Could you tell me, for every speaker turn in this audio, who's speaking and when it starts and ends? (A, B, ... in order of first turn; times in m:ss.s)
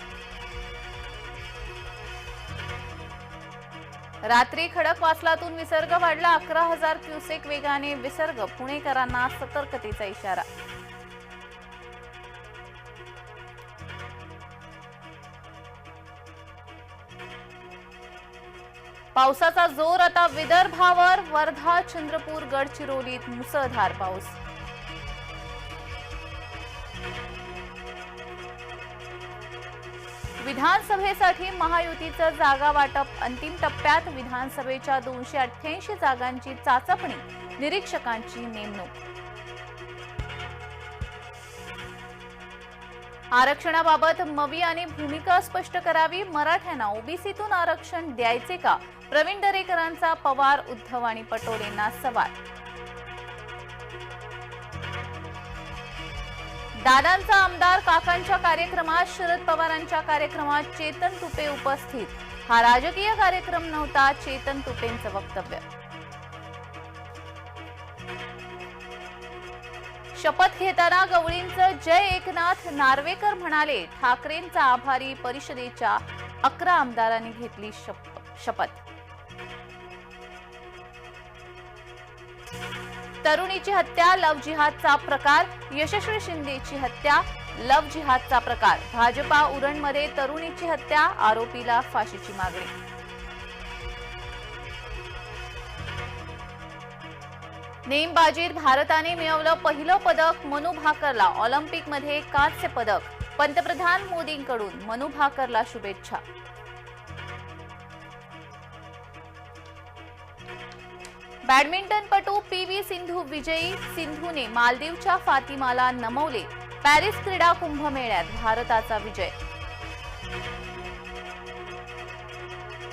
0:04.3-0:10.5 A
0:19.1-0:24.4 A
0:30.4-0:38.9 A
0:43.3-0:52.3 A
0:56.8-1:05.6 A
1:10.2-1:18.8 A
1:23.2-1:32.7 A
1:37.9-1:46.2 A
1:51.4-1:59.4 A